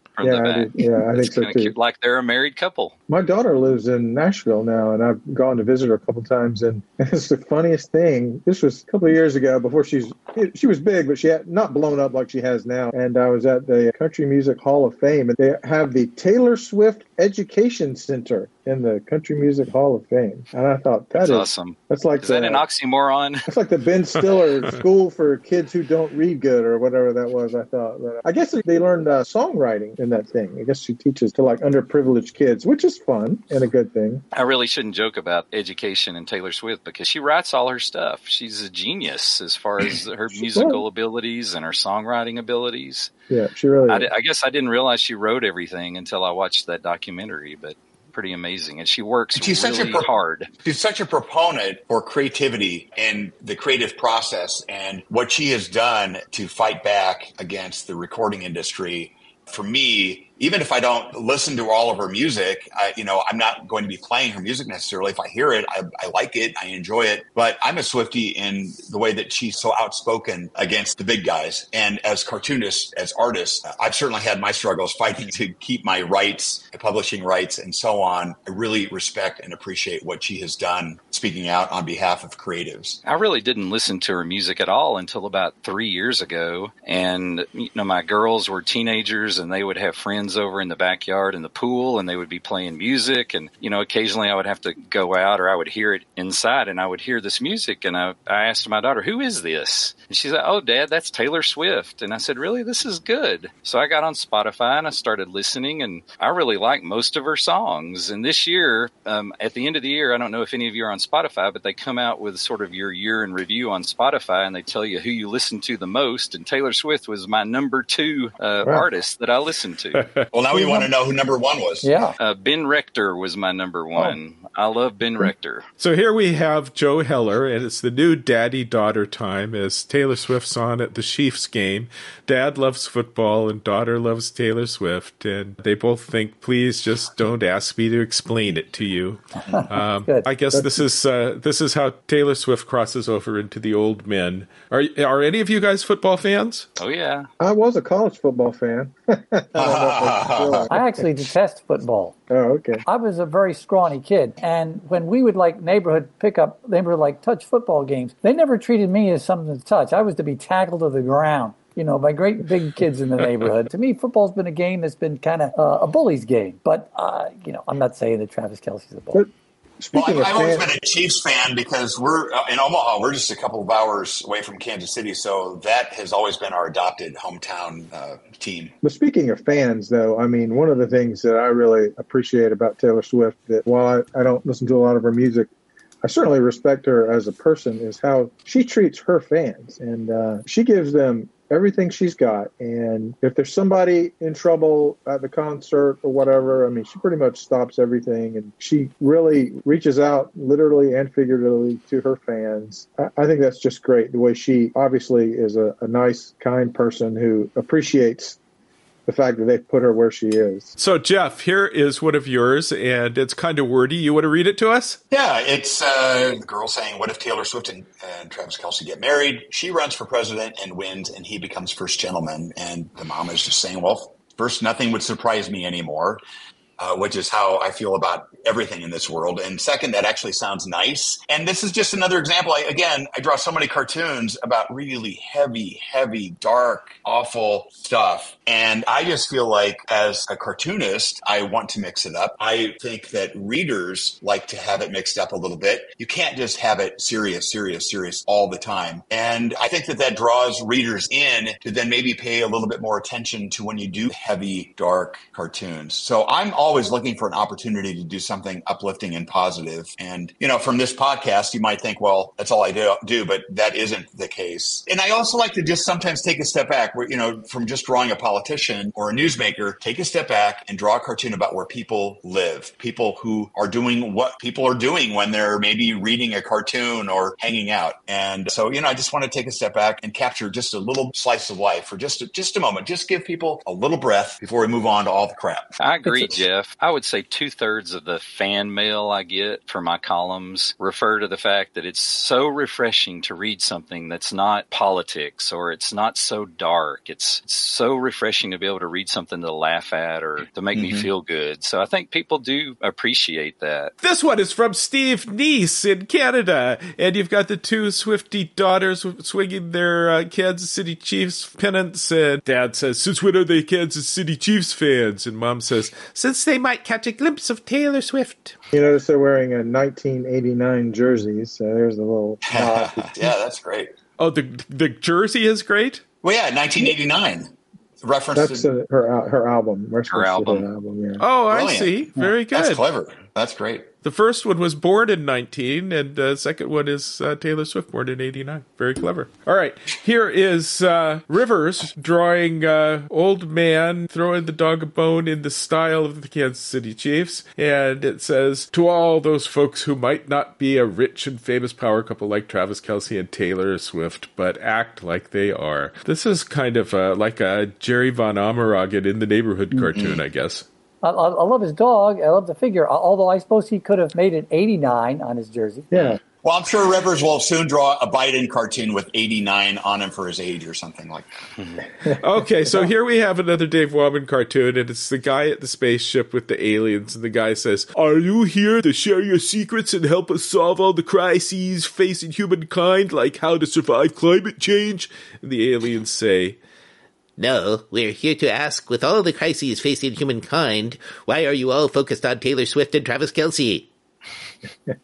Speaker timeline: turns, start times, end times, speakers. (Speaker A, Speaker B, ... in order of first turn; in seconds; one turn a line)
Speaker A: 0.1-2.9
Speaker B: 0.2-1.7
Speaker B: 3.1-22.6
Speaker A: 21.2-23.5
Speaker B: 23.5-34.2
Speaker A: 34.3-43.1
Speaker B: 40.5-40.8
Speaker B: 43.3-44.1
Speaker A: 43.9-50.5
Speaker C: 49.4-50.1
Speaker C: 50.6-83.0
Speaker A: 83.0-120.1
Speaker C: 120.3-122.1
Speaker D: 120.5-120.9
Speaker D: 121.8-122.2
Speaker A: 122.2-125.7
Speaker E: 125.8-146.7
Speaker D: 139.6-140.3
Speaker A: 146.8-147.3
Speaker B: 147.4-151.1
Speaker C: 149.6-150.7
Speaker D: 150.7-152.2
Speaker B: 152.3-152.8
Speaker D: 152.8-169.2
Speaker B: 169.8-170.7
Speaker C: 169.9-178.7
Speaker B: 178.8-185.5
Speaker B: 186.0-208.4
Speaker B: 209.1-210.7
Speaker E: 210.8-215.0
Speaker C: 215.1-226.2
Speaker C: 226.8-285.7
Speaker A: 285.8-303.9
Speaker D: 286.0-286.4
Speaker C: 300.7-301.1
Speaker E: 304.0-318.5
Speaker B: 318.7-323.3
Speaker C: 322.4-323.9
Speaker E: 324.2-326.0
Speaker C: 326.2-328.7
Speaker B: 328.3-331.2
Speaker A: 330.1-330.6
Speaker E: 331.2-332.8
Speaker C: 331.5-332.0
Speaker C: 332.5-333.9
Speaker E: 334.0-360.6
Speaker C: 359.9-360.2
Speaker D: 361.0-365.9
Speaker C: 365.9-371.8
Speaker E: 372.1-386.6
Speaker F: 387.4-393.9